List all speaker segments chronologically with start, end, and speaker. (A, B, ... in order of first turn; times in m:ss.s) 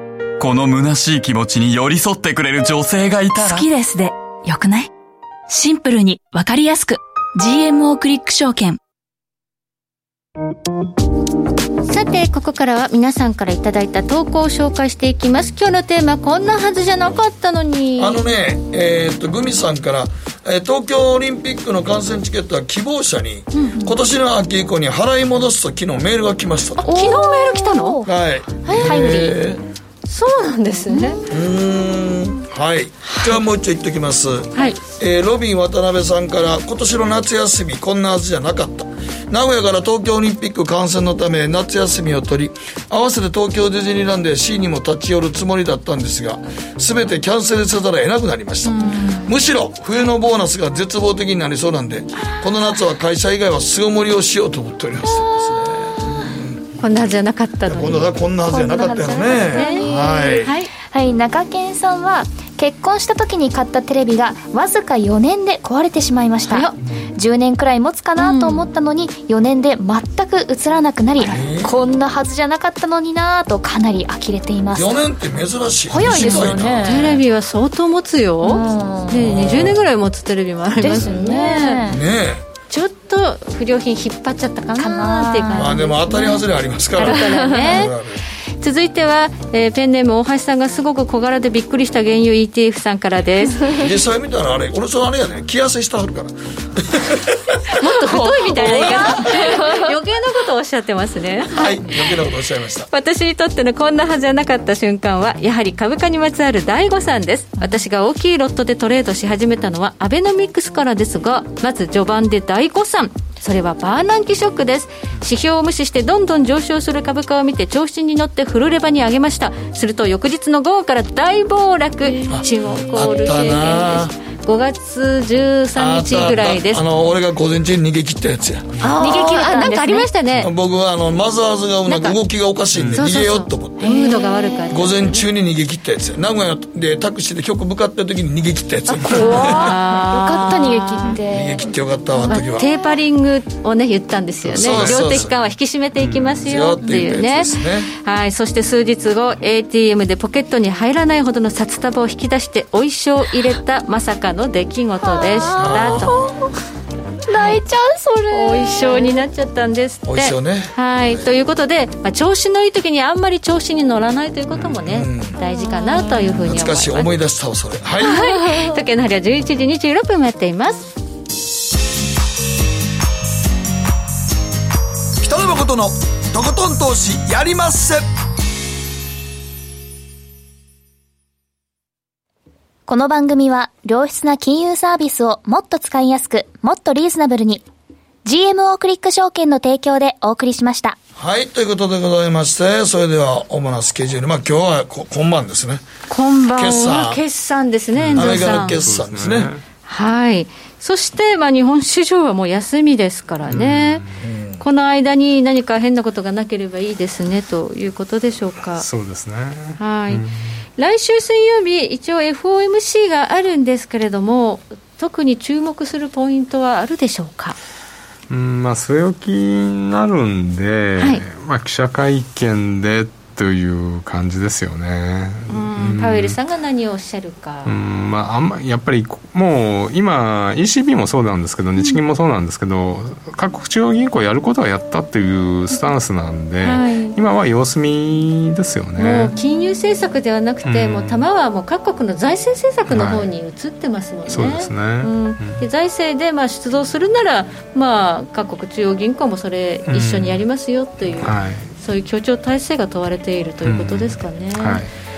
0:00.4-0:03.7 A
0:03.4-0:04.9 B
0:05.5-0:08.8 B
0:11.9-0:18.2 C
0:18.0-0:26.9 D
0:26.8-0:28.0 C
0:26.8-0:29.4 E
0:28.0-0:29.6 D
0:28.6-0:29.2 C
0:30.1-0:31.2 C
0:30.9-0:31.2 E
0:31.3-0:56.6 D
0:33.0-0:33.4 C
0:34.6-0:34.8 C
0:48.7-0:49.3 C
0:55.0-0:56.1 E
0:56.8-0:58.2 C
0:57.7-1:00.5 D
0:58.4-1:15.1 E
0:59.1-0:59.8 C
1:00.4-1:00.7 C
1:06.5-1:06.8 C
1:08.2-1:08.7 C
1:11.3-1:11.7 D
1:14.7-1:17.1 D
1:15.9-1:17.2 E
1:16.0-1:21.8 C
1:18.4-1:19.7 E
1:19.2-1:19.8 D
1:20.8-1:22.0 E
1:20.8-1:21.1 D
1:21.9-1:22.4 D
1:22.7-1:26.4 C
1:24.7-1:26.4 E
1:25.5-1:28.2 D
1:27.0-1:27.9 C
1:27.0-1:27.9 E
1:28.6-1:33.7 C
1:33.8-1:37.7 D
1:37.8-1:42.0 C
1:38.3-1:39.8 E
1:38.3-1:39.7 D
1:41.5-1:42.9 D
1:42.9-2:06.8 C
2:02.0-2:03.5 E
2:02.3-2:04.1 D
2:05.8-2:08.7 D
2:08.8-2:10.5 C
2:09.0-2:10.1 E
2:10.4-2:13.9 D
2:11.9-2:12.2 C
2:12.7-2:13.0 F
2:12.9-2:15.2 C
2:13.8-2:15.0 E
2:14.7-2:19.8 D
2:18.9-2:22.7 E
2:19.1-2:21.2 C
2:21.3-2:22.7 D
2:22.3-2:36.3 C
2:24.4-2:25.3 D
2:24.6-2:25.3 F
2:26.0-2:26.4 F
2:26.4-2:27.9 D
2:35.0-2:36.4 E
2:35.6-2:36.1 D
2:37.2-2:39.2 E
2:37.3-2:37.6 C
2:38.3-2:47.1 C
2:40.0-2:41.3 D
2:44.9-2:45.4 D
2:45.6-2:46.3 E
2:46.3-2:48.2 D
2:48.0-2:50.9 C
2:48.3-2:48.8 E
2:55.2-2:58.1 D
3:02.9-3:07.6 E
3:08.2-3:11.0 E
3:11.2-3:15.8 D
3:16.1-3:18.8 C
3:16.5-3:17.2 D
3:18.0-3:19.6 F
3:18.1-3:19.5 D
3:19.9-3:24.0 C
3:23.5-3:24.2 F
3:24.2-3:24.6 D
3:24.6-3:28.9 C
3:28.7-3:30.6 F
3:29.8-3:30.2 C
3:30.8-3:37.6 C
3:38.3-3:46.4 F
3:41.0-3:41.2 C
3:45.5-3:47.7 C
3:47.6-3:59.3 F
3:56.6-3:57.2 C
3:59.0-4:14.8 C
4:00.6-4:01.2 F
4:02.9-4:03.3 F
4:04.3-4:05.6 F
4:09.9-4:10.4 F
4:11.2-4:11.7 F
4:13.6-4:14.9 F